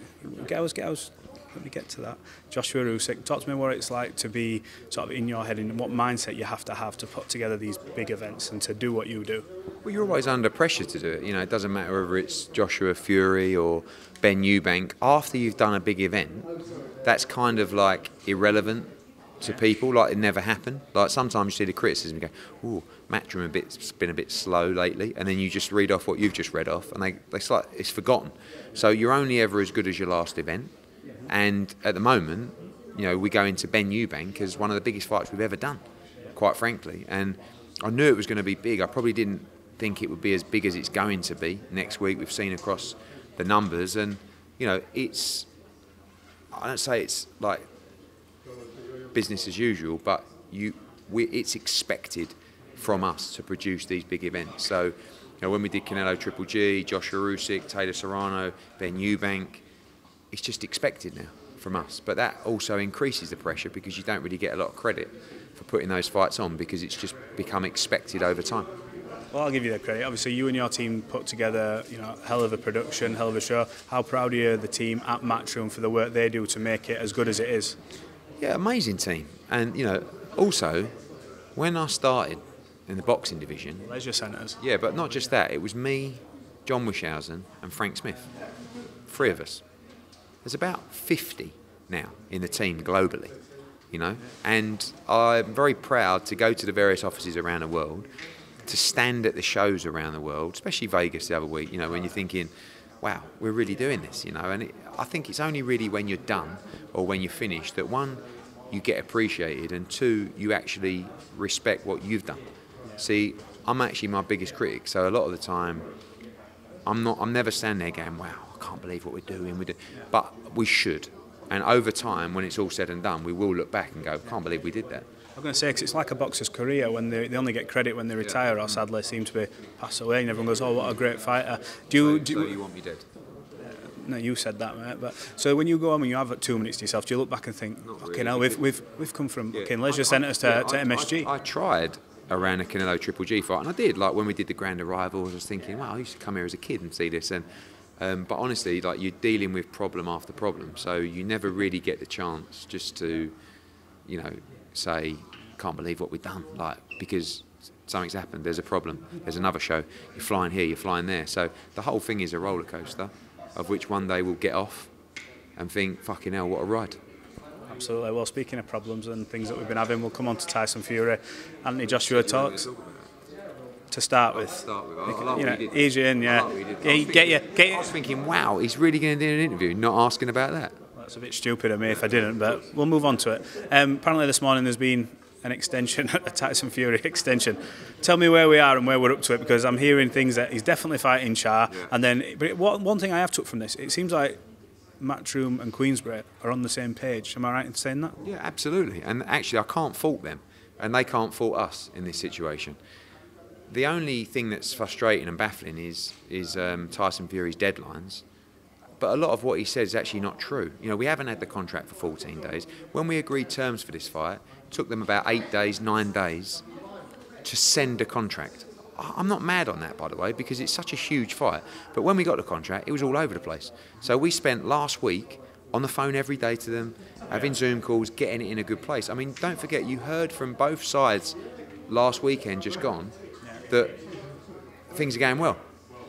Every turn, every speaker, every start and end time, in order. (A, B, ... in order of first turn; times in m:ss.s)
0:00.2-0:09.4 A
0:09.8-0:16.5 B
0:17.0-0:30.7 B
0:31.3-0:35.8 B
0:36.3-0:45.5 B
0:46.5-0:47.6 B
0:49.1-0:59.6 B
1:00.3-1:08.7 B
1:09.3-1:17.8 A
1:18.4-1:20.9 B
1:21.5-1:23.9 B
1:23.9-1:24.6 A
1:24.6-1:28.3 B
1:29.1-1:29.6 B
1:30.4-1:33.3 B
1:33.9-1:38.1 B
1:38.6-1:42.5 B
1:43.0-1:52.4 B
1:53.0-1:55.8 B
1:56.8-2:05.0 B
2:05.4-2:12.6 A
2:08.2-2:08.8 B
2:11.9-2:13.0 B
2:13.7-2:21.3 A
2:17.8-2:18.6 B
2:19.5-2:27.4 B
2:28.0-2:33.3 B
2:34.0-2:44.9 B
2:45.6-2:47.0 B
2:47.7-2:52.6 A
2:51.9-2:53.1 B
2:53.9-2:57.9 A
2:54.3-3:00.7 B
3:01.0-3:14.4 A
3:15.0-3:18.2 A
3:18.2-3:22.8 B
3:23.7-3:28.2 B
3:29.0-3:36.6 B
3:37.4-3:51.4 B
3:51.9-3:53.1 B
3:53.7-3:54.0 B
3:54.9-3:55.6 B